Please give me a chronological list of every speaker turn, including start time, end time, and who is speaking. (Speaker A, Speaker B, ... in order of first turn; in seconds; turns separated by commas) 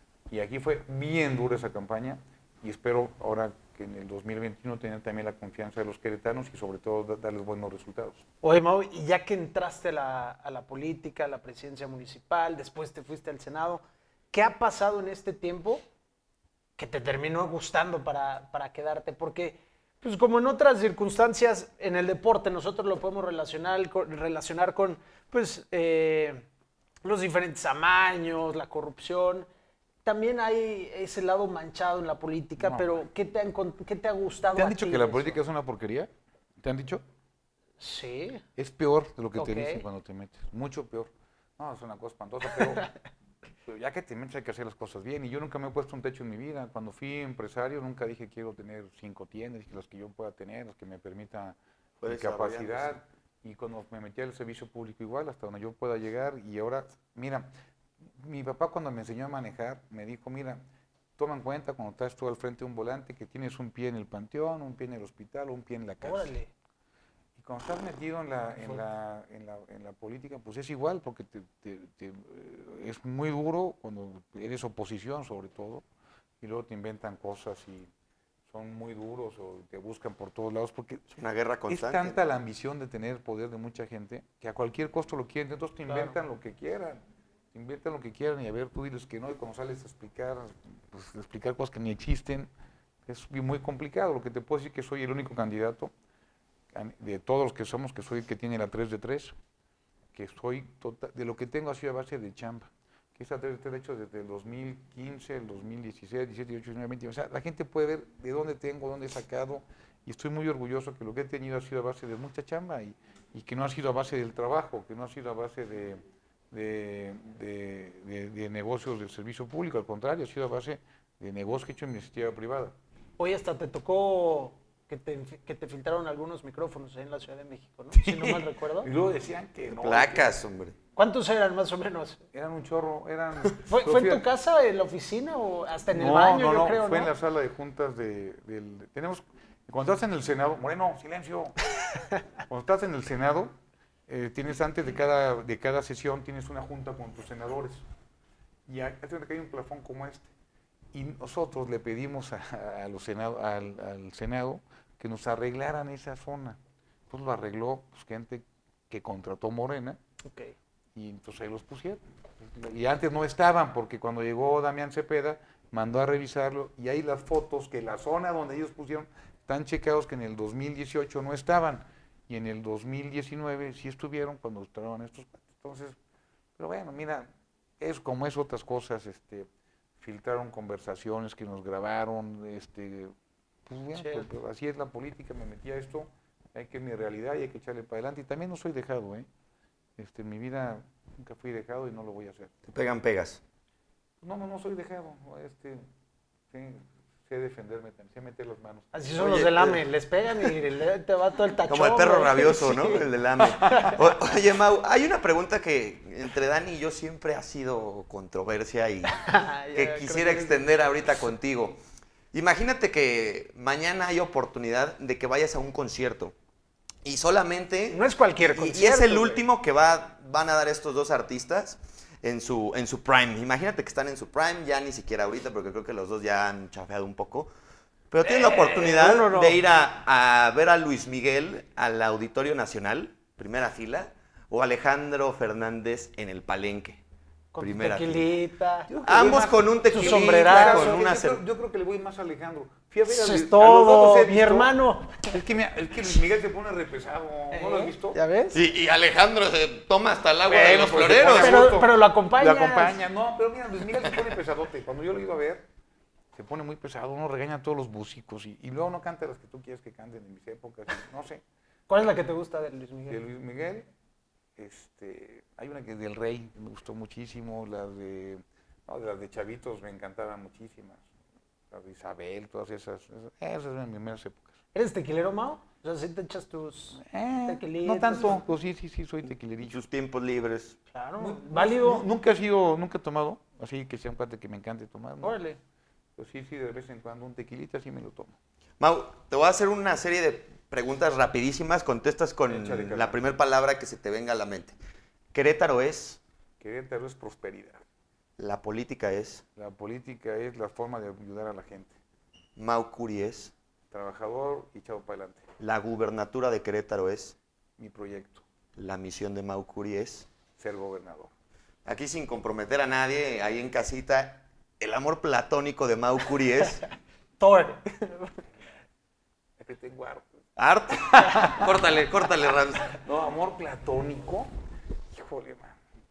Speaker A: 0.3-8.2, Speaker B: 8.4-15.8, Speaker B: 16.8-26.4, Speaker B: 27.0-29.5, Speaker B: 30.0-35.4, Speaker A: 32.6-33.0, Speaker A: 34.5-36.1, Speaker A: 36.6-37.0, Speaker B: 37.8-38.4, Speaker A: 38.6-42.9, Speaker B: 39.4-39.8, Speaker A: 43.6-57.5, Speaker C: 52.0-53.0, Speaker A: 58.2-60.6, Speaker A: 61.2-66.3, Speaker B: 66.0-66.5, Speaker A: 67.3-75.8, Speaker A: 76.4-77.9, Speaker A: 78.5-81.1, Speaker C: 81.1-82.2, Speaker A: 81.7-87.0, Speaker B: 85.9-86.2, Speaker A: 87.5-92.5, Speaker A: 93.1-95.9, Speaker A: 96.7-99.3, Speaker A: 100.1-116.0, Speaker A: 116.5-122.7, Speaker B: 123.2-128.9, Speaker A: 127.9-130.3, Speaker C: 129.7-130.7, Speaker B: 130.9-132.2, Speaker A: 132.3-134.2, Speaker B: 133.7-137.1, Speaker A: 135.9-141.6, Speaker A: 142.5-143.5, Speaker A: 144.1-147.8, Speaker A: 148.7-150.3, Speaker A: 150.9-156.6, Speaker A: 157.1-160.0, Speaker B: 160.2-160.5, Speaker A: 160.9-162.0, Speaker A: 162.6-176.0, Speaker A: 176.6-177.3, Speaker A: 177.8-179.5, Speaker A: 180.0-183.1, Speaker A: 183.7-189.3, Speaker B: 183.9-184.3, Speaker A: 190.0-192.6, Speaker C: 192.7-193.4, Speaker A: 194.2-195.8, Speaker A: 196.5-199.0, Speaker B: 198.9-203.0, Speaker C: 199.2-199.8, Speaker C: 201.7-211.8, Speaker B: 203.6-204.0, Speaker B: 209.1-210.6, Speaker C: 212.3-216.3, Speaker C: 217.0-227.5, Speaker B: 217.9-219.4, Speaker C: 228.1-237.0, Speaker B: 228.2-229.6, Speaker B: 237.5-238.9, Speaker C: 237.6-238.3, Speaker A: 238.9-244.7, Speaker C: 239.0-241.4, Speaker B: 239.9-241.0, Speaker B: 243.1-245.4, Speaker A: 245.3-248.2, Speaker B: 247.5-248.6, Speaker C: 248.5-251.7, Speaker A: 250.4-255.6, Speaker B: 251.3-253.0, Speaker A: 256.3-261.4, Speaker B: 261.9-263.2, Speaker A: 263.1-263.9, Speaker A: 264.6-271.1, Speaker A: 271.7-274.5, Speaker B: 274.7-278.4, Speaker A: 276.9-279.8, Speaker C: 279.6-280.8, Speaker B: 280.9-282.1, Speaker A: 281.2-285.4, Speaker B: 285.2-285.6, Speaker A: 286.2-288.3, Speaker C: 288.8-294.8, Speaker A: 292.5-293.2, Speaker C: 295.3-296.2, Speaker A: 296.6-297.8, Speaker C: 298.4-299.4, Speaker A: 299.6-302.0, Speaker C: 302.6-303.5, Speaker A: 303.9-305.4, Speaker C: 305.6-307.4, Speaker A: 307.8-308.4, Speaker C: 308.8-310.3, Speaker A: 310.6-311.3, Speaker C: 311.8-316.8, Speaker B: 317.4-318.3, Speaker A: 319.6-320.3, Speaker C: 320.6-323.0, Speaker A: 321.1-321.7, Speaker A: 323.0-324.5, Speaker A: 325.1-325.8